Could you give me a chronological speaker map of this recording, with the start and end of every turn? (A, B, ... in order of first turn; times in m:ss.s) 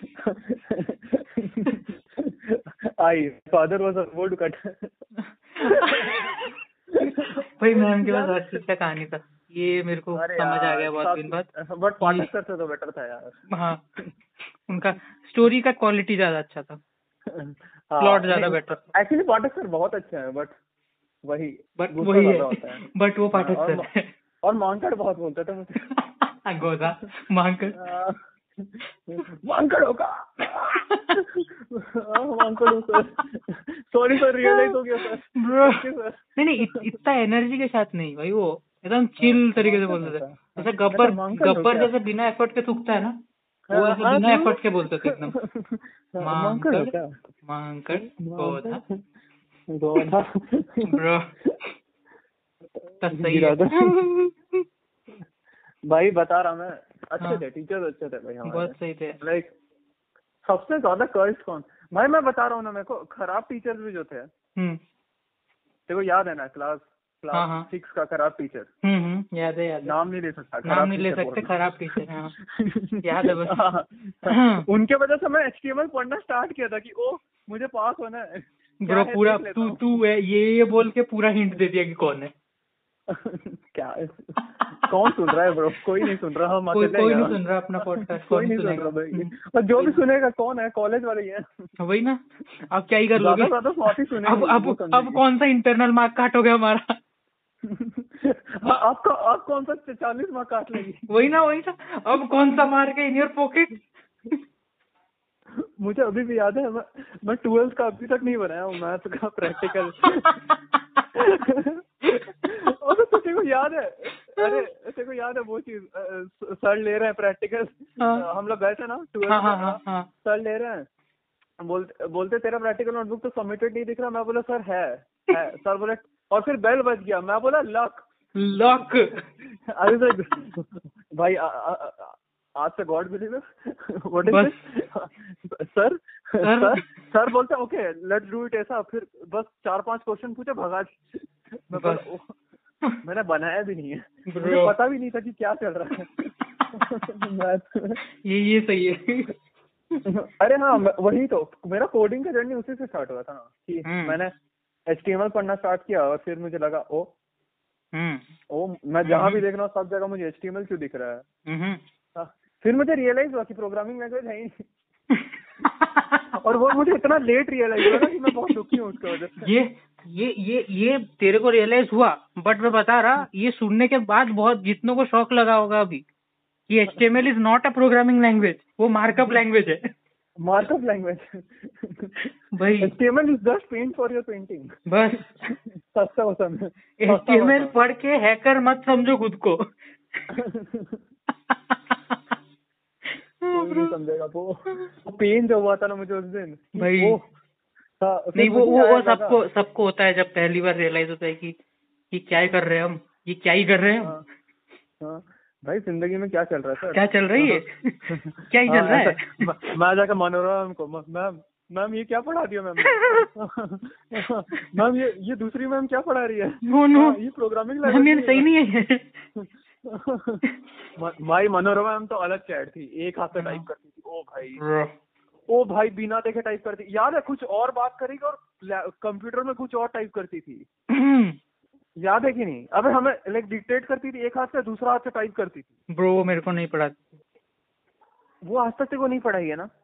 0:00.2-0:04.9 A
0:05.6-0:06.2 A
0:05.6-0:11.5 B
0:07.0-0:08.6 A
0:10.1-0:13.4 A
0:12.0-0:12.3 B
0:13.5-0:13.8 B
0:14.7-0:16.8 B
0:17.3-0:20.5 A
0:18.0-0:18.8 B
0:21.2-0:22.8 A
0:21.8-0:24.1 B
0:23.4-0:23.9 A
0:24.4-0:25.8 A
0:26.0-0:27.8 B
0:27.7-0:36.9 A
0:30.7-0:31.0 B
0:32.6-0:33.0 B
0:34.4-0:34.8 B
0:35.3-0:35.8 B
0:36.4-0:43.2 B
0:39.2-0:41.9 A
0:43.7-0:47.1 A
0:43.7-0:45.3 B
0:46.2-0:46.9 B
0:47.4-0:48.8 B
0:47.9-0:49.0 A
0:49.7-0:51.0 A
0:50.8-0:51.3 B
0:53.0-0:54.3 B
0:53.1-0:54.1 A
0:55.9-0:59.5 A
0:58.4-0:59.2 B
1:00.4-1:04.3 A
1:05.9-1:08.7 A
1:07.3-1:07.7 B
1:08.8-1:09.9 B
1:09.8-1:19.8 A
1:10.6-1:12.3 B
1:13.0-1:13.6 B
1:14.3-1:14.6 B
1:18.8-1:22.3 B
1:23.1-1:27.3 A
1:26.7-1:30.0 B
1:28.2-1:31.5 A
1:31.8-1:36.9 B
1:33.2-1:35.2 A
1:37.7-1:41.0 A
1:41.1-1:43.8 B
1:45.6-1:50.4 A
1:50.2-1:50.5 B
1:51.1-1:51.8 A
1:52.4-2:00.8 A
1:54.4-1:54.6 B
1:58.0-1:58.2 B
1:59.3-2:00.1 B
2:01.6-2:08.0 A
2:08.3-2:09.2 B
2:09.4-2:22.4 A
2:14.3-2:14.5 B
2:16.4-2:16.9 B
2:21.7-2:22.0 B
2:23.0-2:28.0 A
2:24.3-2:24.7 B
2:26.6-2:26.9 B
2:28.2-2:29.3 B
2:30.1-2:34.3 A
2:33.8-2:34.2 B
2:34.9-2:37.1 A
2:37.9-2:38.2 B
2:38.5-2:41.2 A
2:39.0-2:39.4 B
2:41.5-2:41.8 B
2:42.2-2:44.6 A
2:45.1-2:46.2 B
2:46.4-2:49.5 A
2:49.4-2:56.0 B
2:56.7-2:59.9 B
3:00.4-3:07.7 A
3:02.5-3:02.9 B
3:04.9-3:05.5 B
3:07.0-3:09.6 B
3:10.3-3:11.0 A
3:11.5-3:12.2 B
3:13.4-3:13.9 B
3:13.5-3:17.2 A
3:16.8-3:17.2 B
3:18.0-3:19.4 A
3:18.4-3:21.5 B
3:22.1-3:24.2 B
3:25.0-3:38.4 A
3:26.9-3:29.5 B
3:32.8-3:33.2 B
3:36.7-3:37.2 B
3:37.8-3:39.2 B
3:39.4-3:40.4 A
3:41.0-3:44.6 A
3:43.4-3:43.6 B
3:44.6-3:44.9 B
3:45.5-3:50.7 A
3:50.9-3:51.4 B
3:52.0-3:55.7 A
3:55.9-3:57.1 B
3:58.4-3:59.7 A